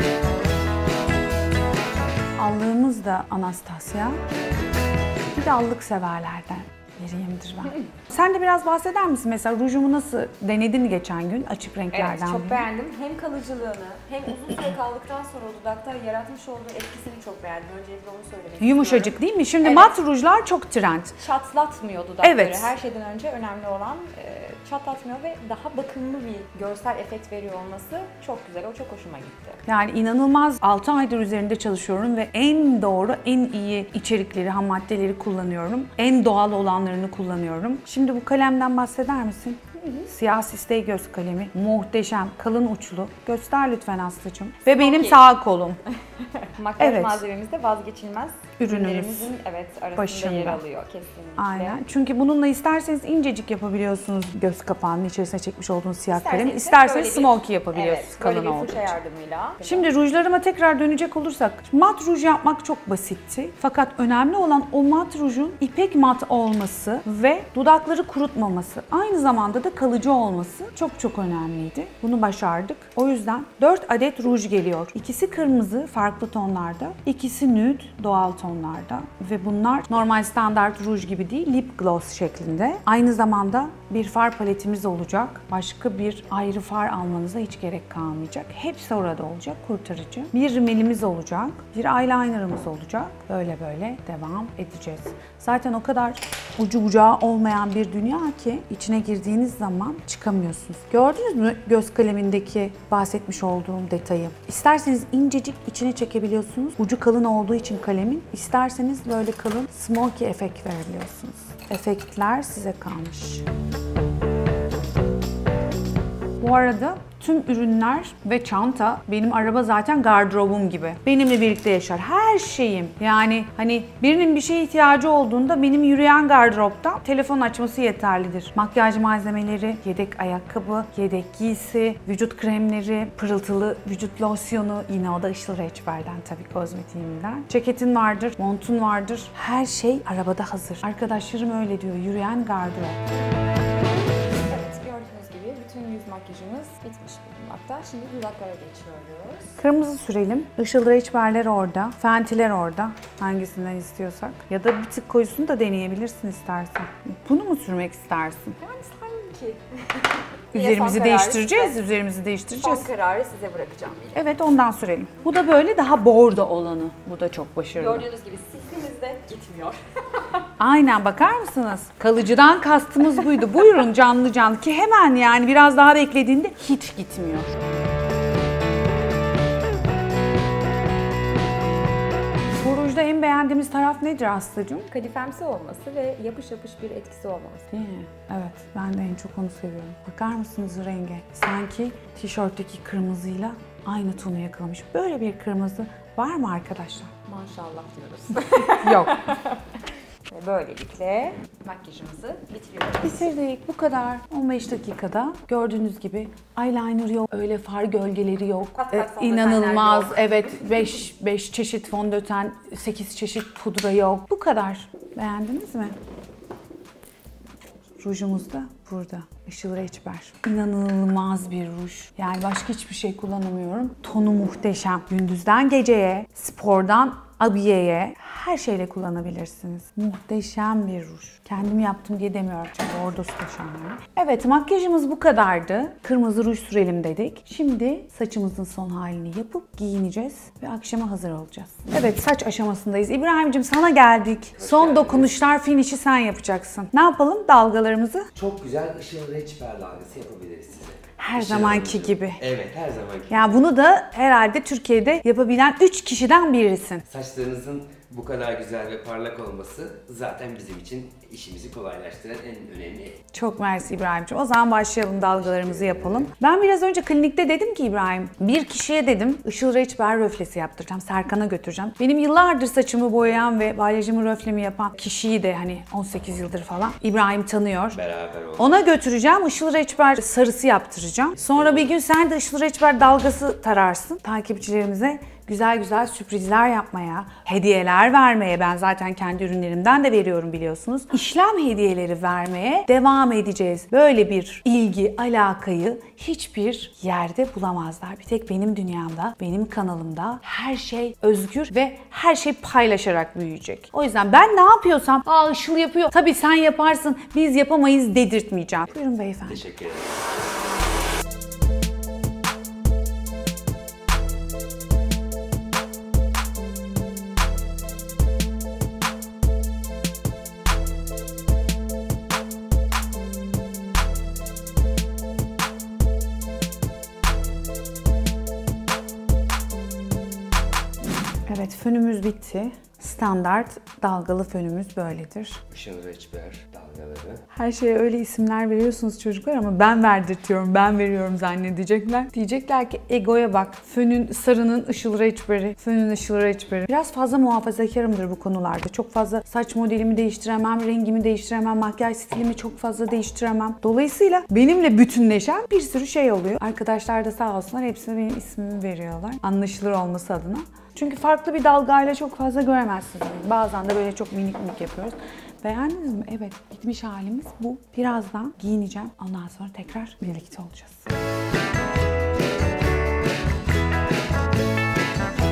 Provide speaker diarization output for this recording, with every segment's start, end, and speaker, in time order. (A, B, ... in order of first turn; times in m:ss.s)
0:02.4-0:04.2 A
0:05.3-0:12.6 A
0:11.9-0:20.0 B
0:18.6-0:21.2 A
0:21.2-0:29.6 B
0:22.2-0:22.7 A
0:29.6-0:45.8 A
0:44.8-0:45.2 B
0:45.9-0:51.8 B
0:46.8-0:47.2 A
0:48.6-0:49.3 A
0:49.9-0:50.6 A
0:51.4-0:58.9 A
0:56.1-0:59.9 B
0:59.6-1:53.4 A
1:56.4-2:23.0 A
2:24.3-2:29.6 B
2:29.6-2:38.6 A
2:38.6-2:41.8 B
2:40.5-2:42.9 A
2:42.6-2:44.2 B
2:44.1-2:48.0 A
2:47.8-2:50.4 B
2:50.6-2:57.5 A
3:02.5-3:04.9 A
3:04.9-3:07.7 B
3:07.7-3:17.1 A
3:17.2-3:23.3 B
3:18.8-3:19.2 A
3:23.0-3:35.9 A
3:28.7-3:30.7 B
3:38.0-4:08.3 A
4:04.6-4:05.3 C
4:08.3-4:13.7 C
4:11.2-4:12.4 A
4:13.3-4:17.0 A
4:17.1-4:23.2 C
4:23.3-4:38.0 A
4:25.3-4:26.3 C
4:37.9-4:38.7 C
4:38.6-5:09.6 A
4:41.5-4:41.8 C
5:09.4-5:10.2 C
5:31.5-5:35.6 A
5:35.7-5:37.4 C
5:37.5-6:11.1 A